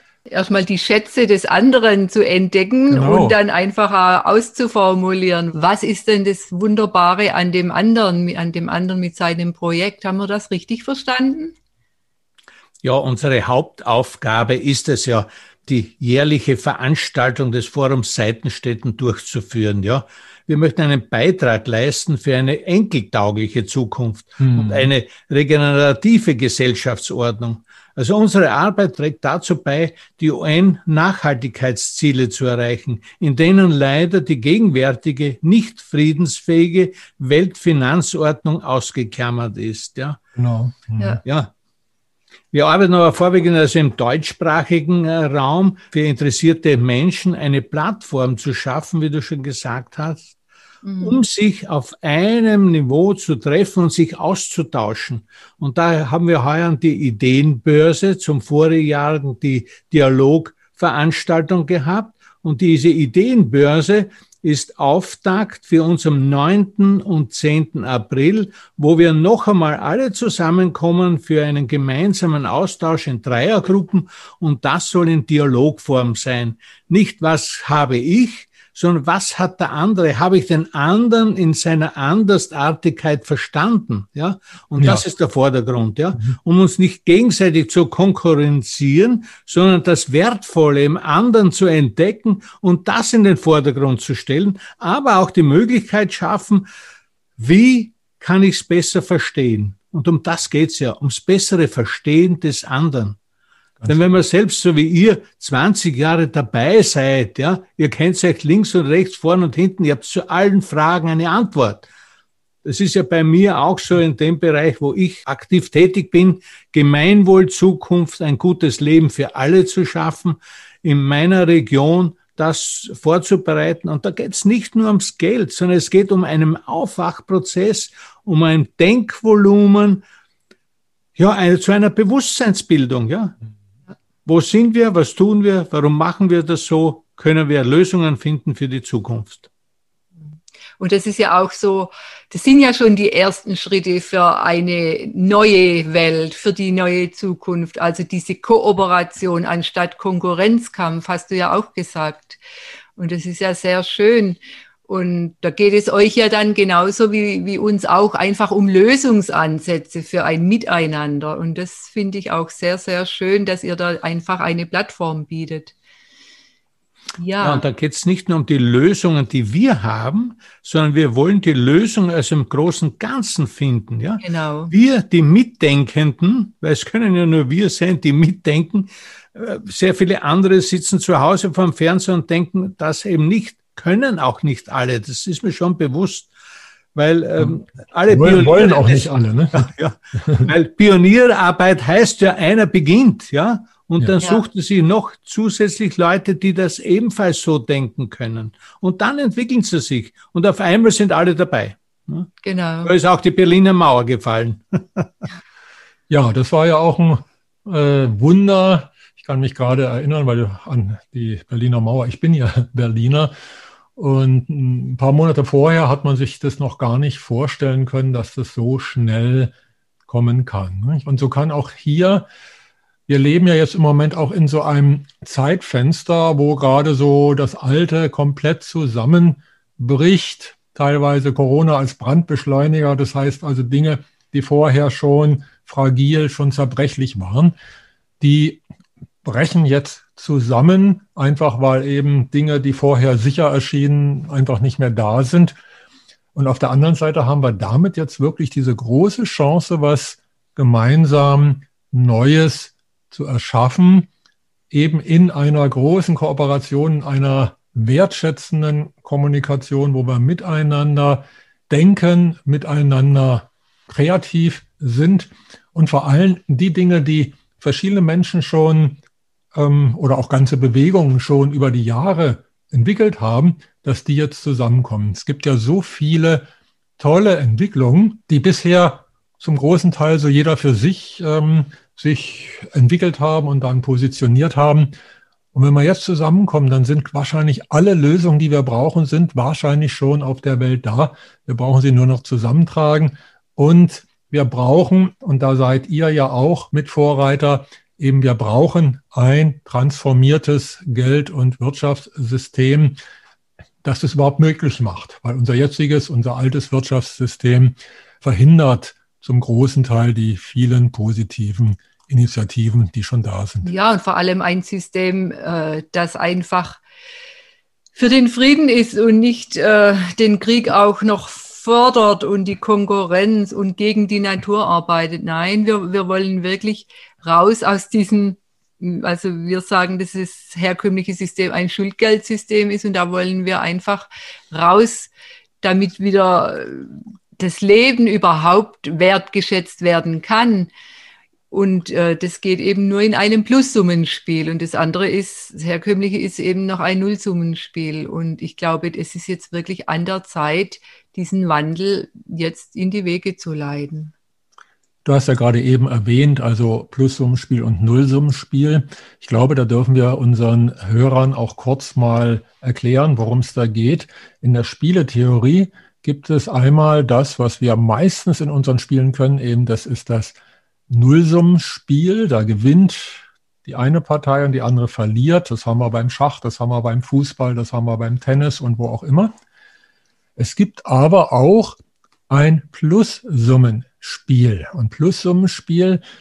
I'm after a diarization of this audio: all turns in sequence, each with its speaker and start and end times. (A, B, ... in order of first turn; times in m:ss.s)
0:00.3-0:11.5 A
0:02.9-0:03.4 B
0:12.8-0:40.2 C
0:24.5-0:24.9 B
0:40.4-0:41.2 B
0:41.2-0:41.5 C
0:42.5-0:50.3 C
0:50.8-0:51.2 A
0:51.0-1:36.7 C
1:37.4-1:43.2 C
1:43.8-1:51.9 C
1:52.6-2:10.0 C
2:11.2-2:13.4 C
2:14.2-2:19.5 C
2:20.8-2:32.4 A
2:33.0-2:45.7 A
2:47.2-2:47.6 A
2:47.4-3:06.3 C
2:54.2-2:54.7 A
3:06.9-3:22.3 C
3:08.1-3:09.7 B
3:22.4-3:22.9 A
3:22.8-3:25.1 C
3:26.1-3:33.3 B
3:34.0-3:39.5 B
3:40.1-3:42.3 B
3:43.1-3:57.5 B
3:58.2-3:58.6 B
3:59.2-4:05.6 B
4:06.3-4:14.1 B
4:14.7-4:29.0 B
4:29.5-4:36.5 B
4:37.0-4:44.9 B
4:45.5-5:03.0 B
5:03.8-5:13.7 B
5:13.6-5:16.8 A
5:18.0-5:40.7 A
5:41.5-5:54.1 A
5:55.0-6:10.4 B
6:10.9-6:19.3 B
6:20.4-6:21.8 B
6:22.3-6:26.0 B